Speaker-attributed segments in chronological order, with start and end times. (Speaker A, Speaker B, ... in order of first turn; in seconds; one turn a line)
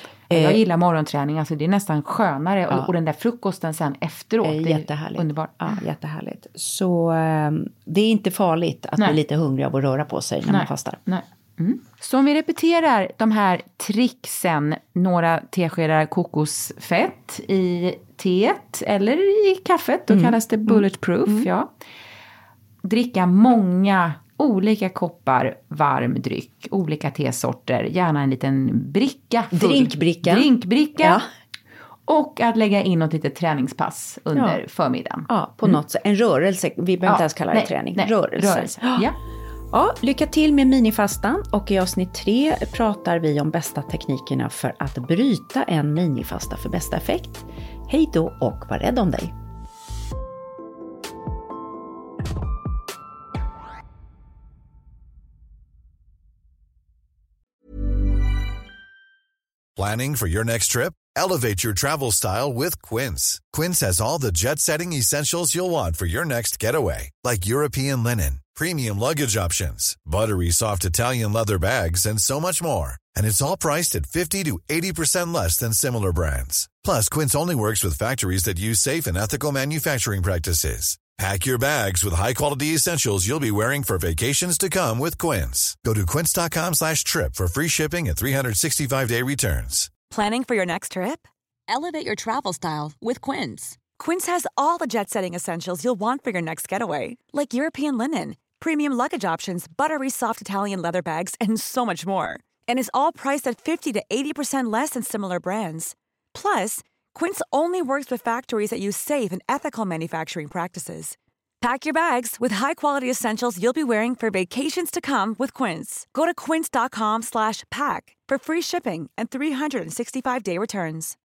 Speaker A: 0.3-5.8
Speaker B: 0.3-0.6
Speaker B: 4.4-11.0
Speaker A: 10.5-21.7
Speaker B: 20.1-21.5
Speaker A: 22.8-31.2
Speaker B: 29.5-31.3
Speaker A: 32.1-35.8
Speaker B: 34.3-34.6
Speaker B: 35.3-39.1
Speaker A: 37.1-39.2
Speaker B: 39.7-49.3
Speaker C: 59.8-89.9
Speaker D: 90.1-121.2